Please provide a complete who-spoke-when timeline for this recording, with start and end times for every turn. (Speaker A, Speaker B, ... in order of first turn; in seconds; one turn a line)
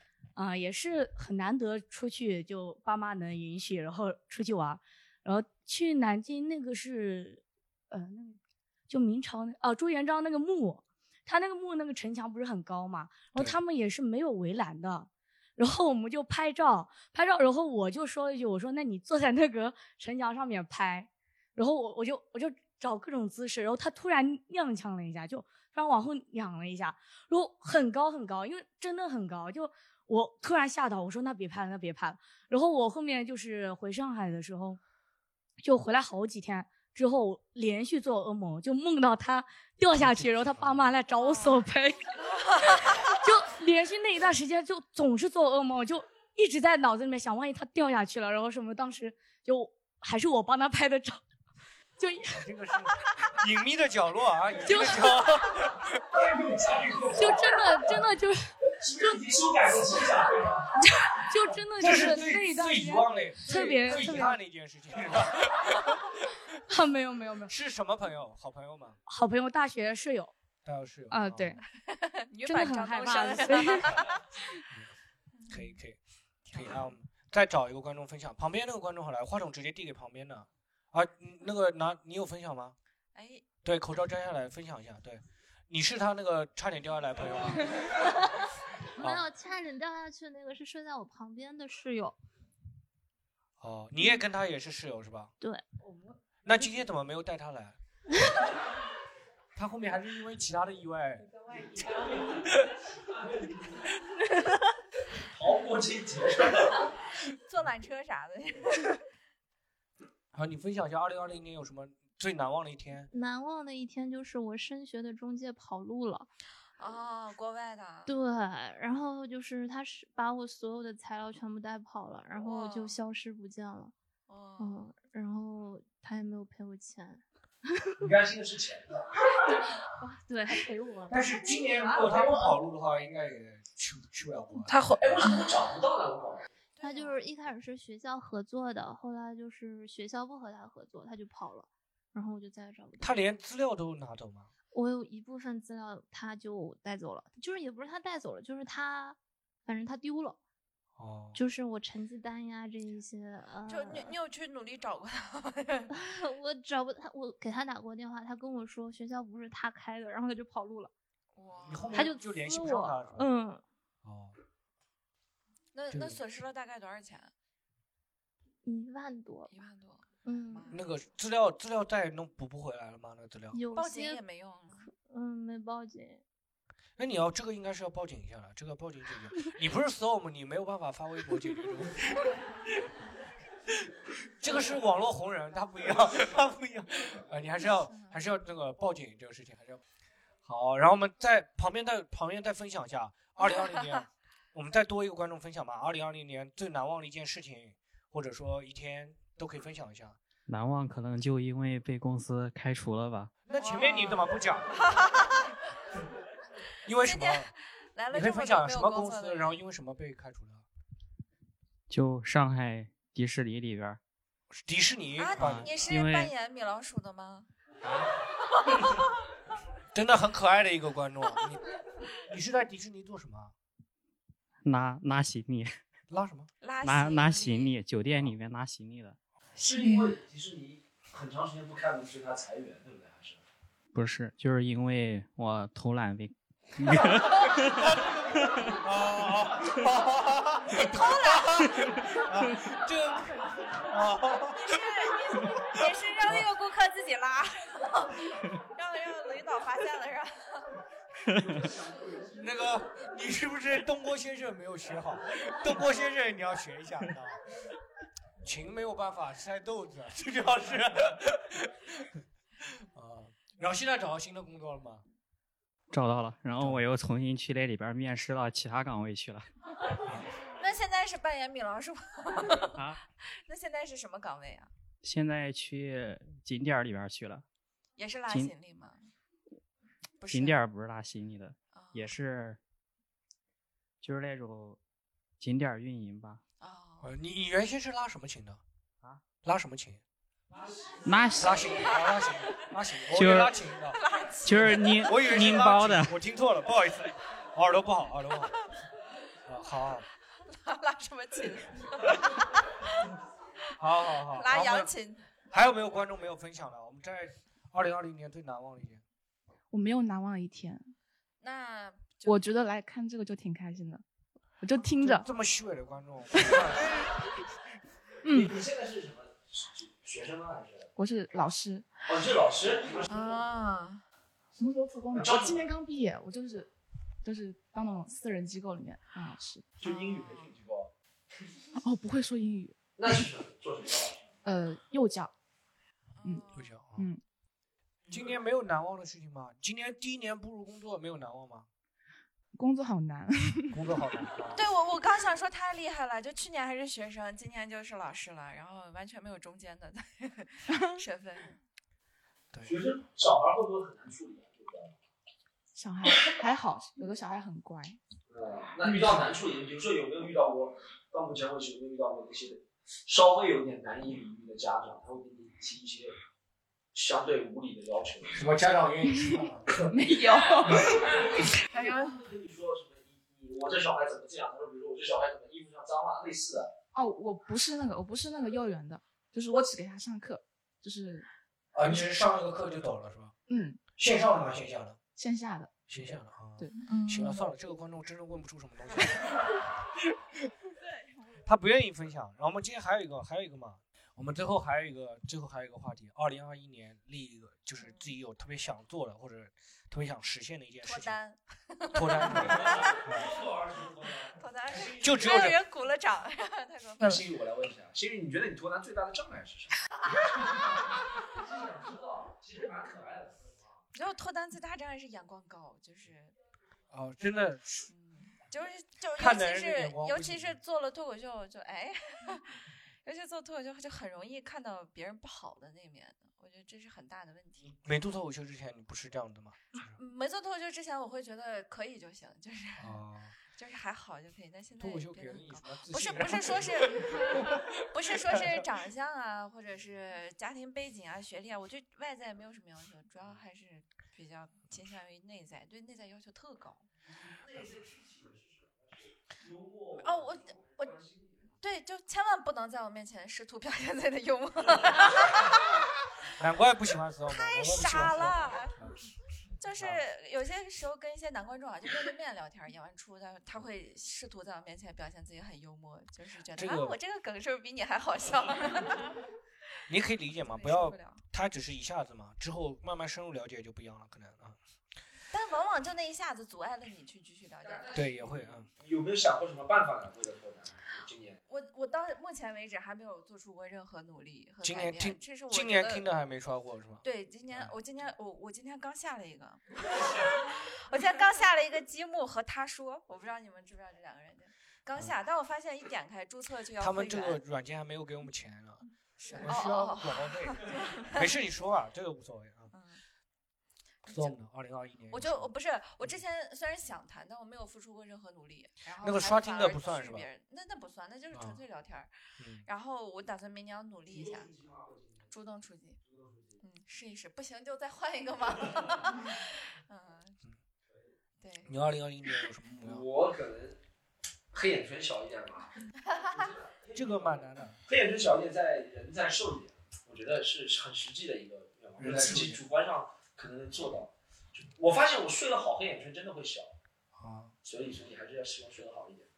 Speaker A: 0.4-34.8
Speaker A: 35.6-42.1
Speaker B: 40.0-40.9
Speaker C: 41.2-41.5
Speaker A: 43.2-51.2
Speaker A: 52.0-52.4
Speaker B: 52.3-56.0
Speaker A: 54.7-55.2
Speaker D: 56.1-57.6
Speaker A: 57.2-59.2
Speaker D: 58.8-60.7
Speaker A: 60.8-64.4
Speaker B: 61.8-66.0
Speaker A: 66.7-67.5
Speaker B: 67.5-69.0
Speaker A: 69.1-70.3
Speaker B: 70.6-71.6
Speaker A: 71.1-71.6
Speaker C: 71.7-74.2
Speaker A: 72.5-74.0
Speaker B: 75.5-76.0
Speaker C: 76.5-76.9
Speaker B: 76.5-82.8
Speaker C: 83.2-83.4
Speaker B: 83.6-88.1
Speaker B: 89.0-89.2
Speaker E: 89.0-92.2
Speaker B: 93.6-95.3
Speaker B: 96.4-97.8
Speaker B: 99.6-101.3
Speaker D: 103.2-103.7
Speaker D: 105.2-106.9
Speaker C: 107.5-109.0
Speaker B: 110.3-113.1
Speaker E: 113.1-116.3
Speaker C: 116.8-118.1
Speaker E: 118.1-123.9
Speaker C: 122.4-123.0
Speaker C: 124.3-124.8
Speaker E: 124.6-127.2
Speaker D: 128.0-129.2
Speaker E: 130.0-132.4
Speaker B: 131.1-135.3
Speaker D: 132.0-132.4
Speaker D: 135.0-136.5
Speaker C: 136.8-137.2
Speaker E: 136.8-143.2
Speaker B: 143.0-144.5
Speaker E: 144.7-150.4
Speaker B: 151.0-151.4
Speaker E: 151.3-154.2
Speaker C: 153.7-155.9
Speaker E: 155.9-160.9
Speaker C: 161.3-162.1
Speaker B: 161.7-163.3
Speaker E: 161.9-163.6
Speaker B: 164.0-164.4
Speaker C: 165.7-167.3
Speaker B: 165.9-166.2
Speaker E: 168.6-169.5
Speaker C: 169.5-170.9
Speaker E: 170.2-170.7
Speaker B: 170.7-173.6
Speaker E: 173.5-174.2
Speaker C: 173.8-174.9
Speaker E: 174.7-176.2
Speaker B: 177.0-182.3
Speaker B: 183.8-189.8
Speaker C: 187.6-188.2
Speaker B: 190.4-200.2
Speaker C: 193.4-193.7
Speaker F: 200.5-203.3
Speaker B: 203.4-204.9
Speaker C: 203.6-205.5
Speaker B: 206.8-207.5
Speaker C: 207.0-209.6
Speaker B: 208.1-210.7
Speaker F: 211.9-214.0
Speaker B: 214.5-215.7
Speaker C: 215.2-217.5
Speaker F: 215.4-216.3
Speaker B: 219.9-223.5
Speaker F: 224.6-225.7
Speaker B: 226.1-226.5
Speaker C: 226.6-227.7
Speaker F: 226.8-229.2
Speaker D: 229.6-233.4
Speaker G: 229.7-230.1
Speaker F: 233.9-237.9
Speaker B: 237.4-244.9
Speaker C: 240.7-241.8
Speaker C: 244.6-250.7
Speaker B: 245.4-246.5
Speaker D: 251.4-252.3
Speaker B: 252.3-257.4
Speaker B: 258.4-262.2
Speaker B: 262.9-265.0
Speaker F: 265.9-269.4
Speaker B: 266.6-266.8
Speaker C: 270.5-272.8
Speaker F: 272.8-273.0
Speaker C: 273.4-274.7
Speaker F: 275.0-277.4
Speaker C: 278.0-279.0
Speaker F: 278.3-278.5
Speaker C: 280.2-280.6
Speaker F: 280.3-282.6
Speaker C: 281.7-282.1
Speaker F: 284.0-284.8
Speaker F: 285.4-286.4
Speaker C: 286.6-287.1
Speaker B: 287.0-288.6
Speaker B: 289.4-290.0
Speaker F: 291.0-291.6
Speaker B: 291.4-294.0
Speaker F: 293.1-293.5
Speaker C: 293.9-295.1
Speaker F: 294.4-296.1
Speaker B: 294.6-298.6
Speaker B: 299.5-300.1
Speaker C: 300.5-303.1
Speaker B: 303.8-304.9
Speaker C: 304.3-305.3
Speaker B: 305.5-309.0
Speaker G: 309.7-310.9
Speaker C: 311.4-312.4
Speaker G: 312.3-314.0
Speaker G: 314.6-315.3
Speaker B: 315.0-317.0
Speaker G: 316.4-316.6
Speaker G: 318.2-318.6
Speaker D: 318.3-320.9
Speaker G: 321.0-321.9
Speaker D: 322.1-323.4
Speaker C: 323.1-324.0
Speaker G: 324.6-326.7
Speaker D: 325.1-325.7
Speaker G: 327.2-329.7
Speaker D: 329.8-330.9
Speaker C: 329.8-330.5
Speaker G: 331.8-333.3
Speaker D: 333.0-334.4
Speaker G: 334.4-335.3
Speaker C: 336.1-336.8
Speaker G: 336.2-337.2
Speaker B: 336.5-337.1
Speaker B: 338.1-341.7
Speaker G: 342.5-343.9
Speaker B: 343.7-344.6
Speaker C: 344.5-351.6
Speaker G: 350.7-351.0
Speaker D: 352.6-355.0
Speaker G: 355.8-358.0
Speaker D: 358.3-366.1
Speaker D: 366.9-368.5
Speaker B: 368.4-369.8
Speaker G: 369.9-371.5
Speaker D: 370.1-376.7
Speaker C: 371.7-372.2
Speaker G: 376.9-381.3
Speaker B: 381.8-383.3
Speaker G: 383.5-383.8
Speaker B: 384.0-385.0
Speaker G: 385.2-385.7
Speaker B: 385.9-389.9
Speaker G: 386.6-387.4
Speaker B: 391.4-401.2
Speaker C: 397.8-398.1
Speaker C: 400.8-402.9
Speaker B: 401.9-403.4
Speaker D: 402.2-405.5
Speaker C: 404.4-407.2
Speaker B: 405.0-405.6
Speaker D: 407.0-409.8
Speaker C: 410.1-410.6
Speaker D: 411.2-413.8
Speaker C: 413.9-416.4
Speaker B: 416.9-417.9
Speaker C: 417.9-427.7
Speaker B: 419.2-420.6
Speaker B: 427.6-430.0
Speaker C: 429.9-446.9
Speaker B: 432.8-433.4
Speaker B: 434.8-438.6
Speaker D: 447.2-451.5
Speaker C: 450.0-450.9
Speaker C: 451.6-455.8
Speaker B: 456.4-459.0
Speaker C: 457.3-458.7
Speaker C: 459.6-469.3
Speaker B: 459.8-460.0
Speaker B: 466.6-467.0
Speaker B: 469.9-474.6
Speaker C: 470.4-471.2
Speaker C: 475.3-478.1
Speaker D: 477.6-481.4
Speaker B: 477.9-478.7
Speaker C: 481.5-486.1
Speaker B: 484.6-487.7
Speaker C: 487.0-497.4
Speaker B: 496.8-502.7
Speaker C: 499.2-501.2
Speaker C: 502.7-503.0
Speaker C: 504.0-504.4
Speaker B: 504.1-505.5
Speaker C: 505.1-512.1
Speaker B: 509.0-510.3
Speaker B: 511.3-511.6
Speaker B: 512.4-512.7
Speaker C: 512.6-514.5
Speaker D: 514.1-515.3
Speaker C: 515.3-516.0
Speaker D: 516.0-516.6
Speaker C: 516.6-520.4
Speaker C: 521.4-521.7
Speaker B: 521.6-523.0
Speaker D: 522.8-523.8
Speaker D: 524.5-536.8
Speaker C: 526.1-526.4
Speaker B: 526.9-527.8
Speaker B: 532.0-532.6
Speaker B: 537.2-537.5
Speaker D: 537.6-539.3